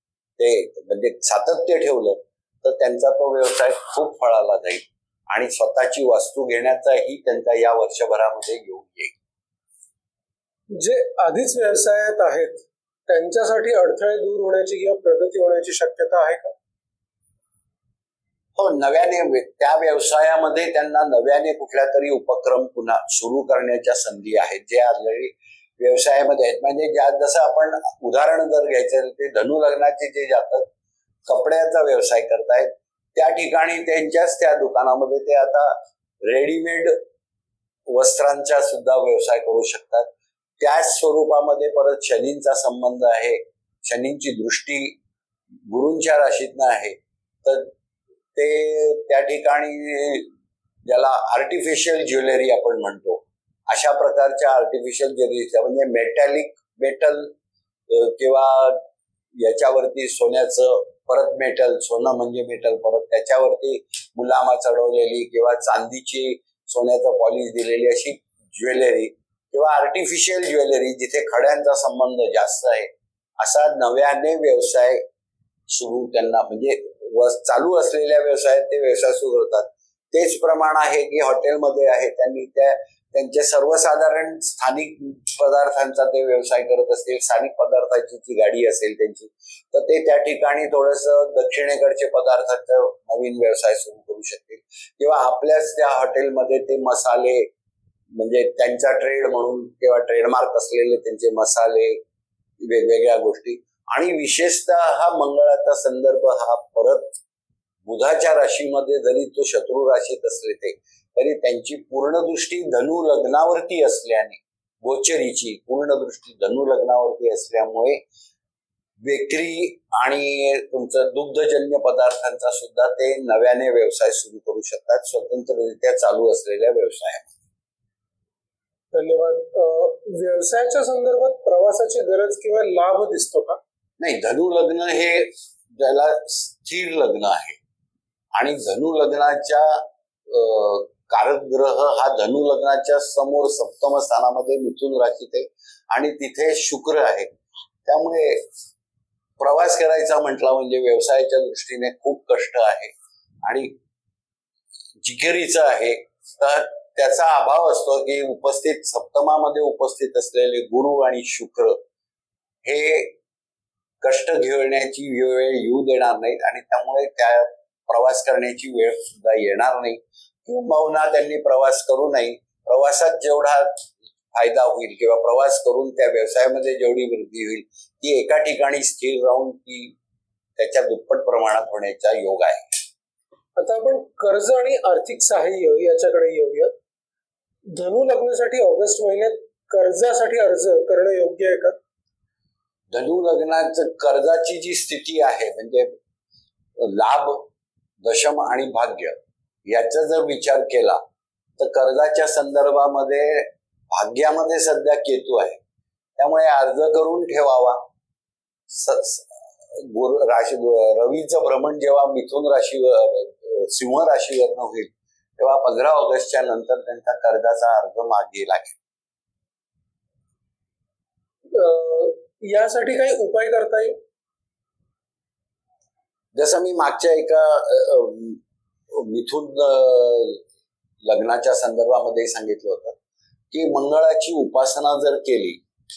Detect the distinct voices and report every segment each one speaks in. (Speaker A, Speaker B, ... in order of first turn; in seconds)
Speaker A: 0.4-9.1, 18.6-30.7, 31.3-37.0, 37.9-40.1, 40.6-45.0, 45.7-47.7, 48.4-50.3, 50.9-57.3, 57.9-58.8, 59.4-72.9, 73.4-75.0, 75.7-97.5, 98.2-102.0, 102.6-107.2, 107.9-118.0, 119.0-127.3, 134.0-137.6, 138.3-147.3, 147.8-148.5, 149.4-152.9, 153.4-153.7, 155.0-161.8, 162.6-163.1, 164.0-179.9, 180.6-182.8, 192.9-195.9, 196.8-197.5, 198.0-199.2, 199.7-201.0, 201.6-205.6, 206.2-207.8, 208.7-218.8, 226.3-228.4, 228.9-230.4, 231.1-233.0, 233.5-235.6
Speaker B: 10.8-16.5, 128.9-133.6, 183.6-186.7, 187.8-191.8, 221.5-223.9